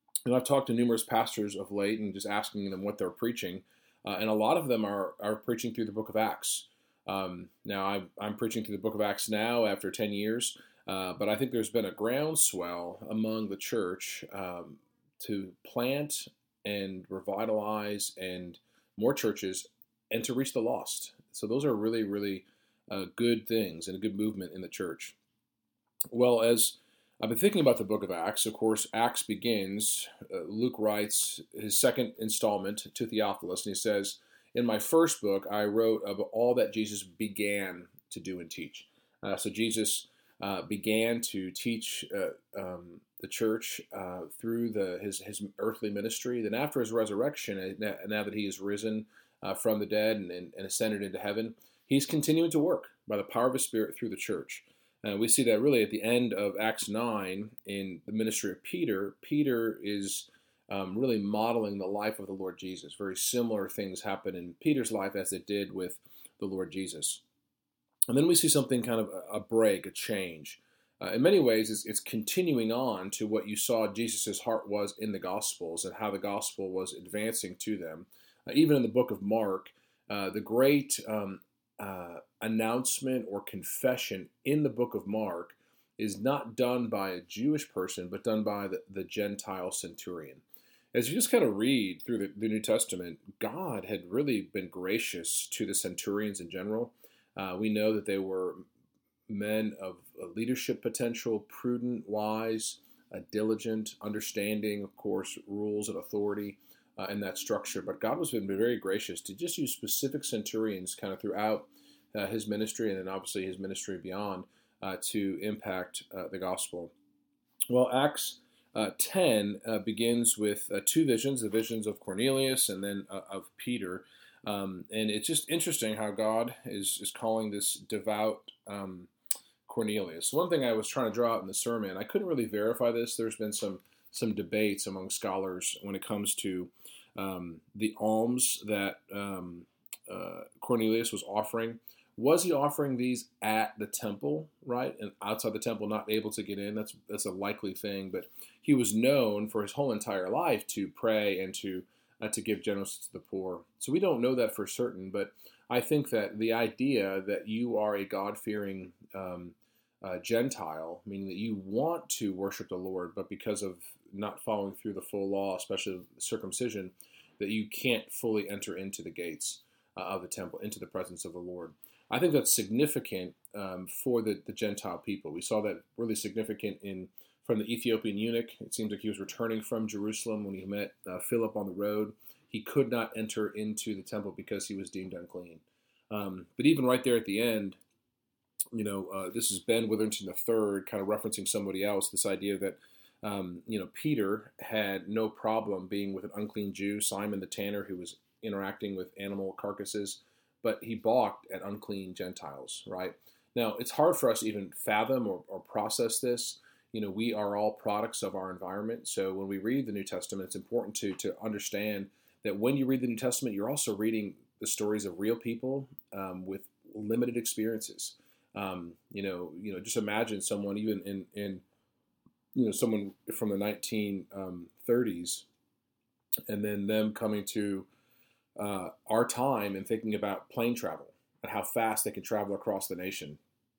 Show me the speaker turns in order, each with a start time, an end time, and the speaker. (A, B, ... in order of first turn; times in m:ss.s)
0:00.2-0:25.2 A
0:26.1-1:07.2 A
1:08.1-1:38.6 A
1:39.3-1:56.9 A
1:57.7-2:09.1 A
2:09.6-3:07.8 A
3:08.7-3:41.6 A
3:42.5-3:45.5 A
3:46.5-3:47.9 A
3:48.6-3:53.4 A